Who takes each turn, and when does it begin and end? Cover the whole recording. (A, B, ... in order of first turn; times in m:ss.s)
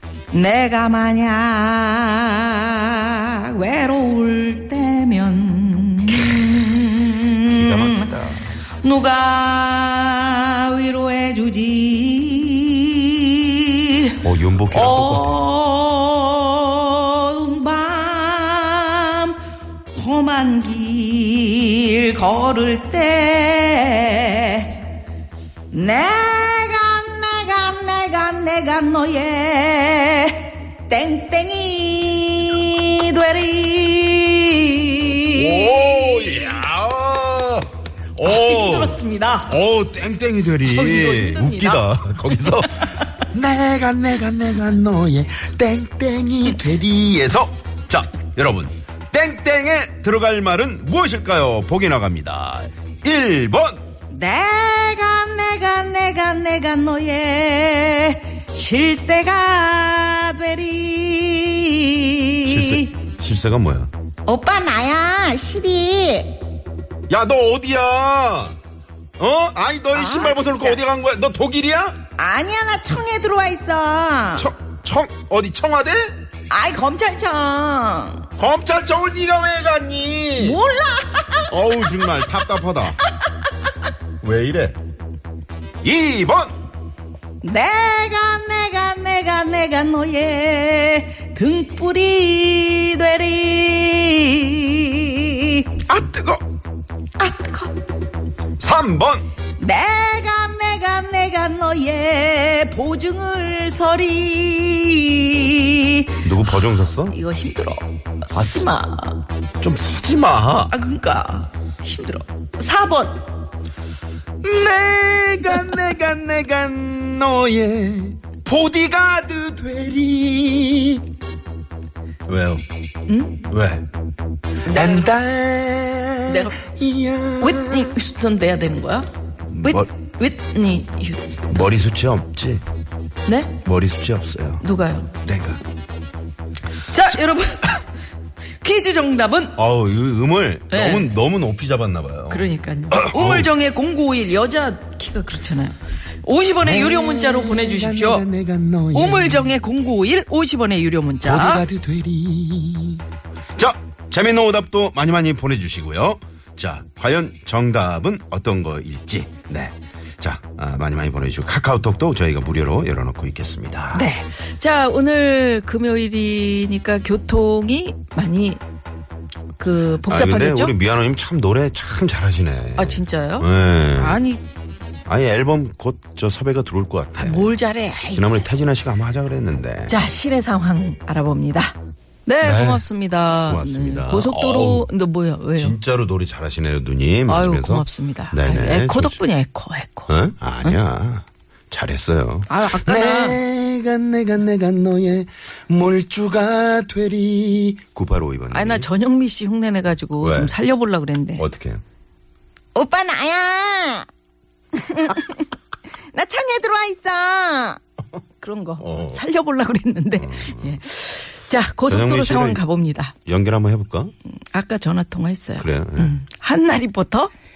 0:00.3-0:08.1 A
0:07.4-0:08.5 B
0:08.8-0:19.4 A
0:14.2-0:15.4 B
0:19.9-0:24.8 A
0:25.7-0:36.5 A
0:35.2-0:53.8 B
0:38.2-0:39.6 A
0:40.6-0:43.1 A
0:54.1-1:02.9 A
1:02.4-1:03.9 B
1:04.2-1:06.3 A
1:07.1-1:08.6 B
1:09.2-1:12.0 B
1:09.9-1:10.8 A
1:12.2-1:14.5 A
1:14.4-1:16.1 B
1:16.5-1:18.2 A
1:18.4-1:20.6 B
1:20.4-1:22.4 A
1:21.5-1:23.0 B
1:23.0-1:23.7 A
1:24.2-1:24.8 B
1:25.8-1:26.5 B
1:27.4-1:35.8 A
1:35.8-1:36.4 B
1:37.2-1:37.7 A
1:38.6-1:39.3 B
1:39.6-1:46.4 A
1:46.2-1:47.1 B
1:47.1-1:49.2 A
1:48.3-1:48.7 B
1:49.6-1:50.7 B
1:50.7-1:53.3 A
1:54.4-2:01.1 B
2:02.3-2:02.6 B
2:03.1-2:03.4 A
2:03.4-2:03.8 B
2:04.6-2:05.2 A
2:04.7-2:08.0 B
2:06.2-2:06.6 A
2:07.4-2:09.1 A
2:09.5-2:09.9 B
2:09.6-2:11.7 A
2:11.5-2:12.6 B
2:13.2-2:13.6 A
2:13.6-2:14.6 B
2:14.6-2:15.1 A
2:15.2-2:15.6 B
2:16.9-2:17.8 A
2:18.6-2:19.6 A
2:19.6-2:23.5 B
2:20.7-2:21.1 A
2:22.3-2:28.3 A
2:26.6-2:29.5 B
2:28.9-2:31.6 A
2:31.2-2:33.0 B
2:33.6-2:44.1 B
2:43.9-2:48.6 A
2:49.6-2:50.8 A
2:50.0-2:54.2 B
2:52.8-2:54.4 A
2:55.1-3:00.0 B
2:57.2-2:58.4 A
2:59.9-3:01.7 A
3:02.2-3:05.8 A
3:02.4-3:02.9 B
3:03.4-3:04.9 B
3:05.5-3:09.2 B
3:07.2-3:10.1 A
3:10.1-3:18.9 B
3:12.5-3:13.4 A
3:18.5-3:21.4 A
3:20.2-3:20.5 B
3:21.4-3:21.8 B
3:22.7-3:24.1 A
3:24.7-3:25.5 A
3:26.1-3:27.8 A
3:28.4-3:33.1 A
3:28.8-3:29.2 B
3:30.2-3:30.8 B
3:31.9-3:32.6 B
3:33.2-3:34.1 B
3:34.5-3:37.3 A
3:35.6-3:36.2 B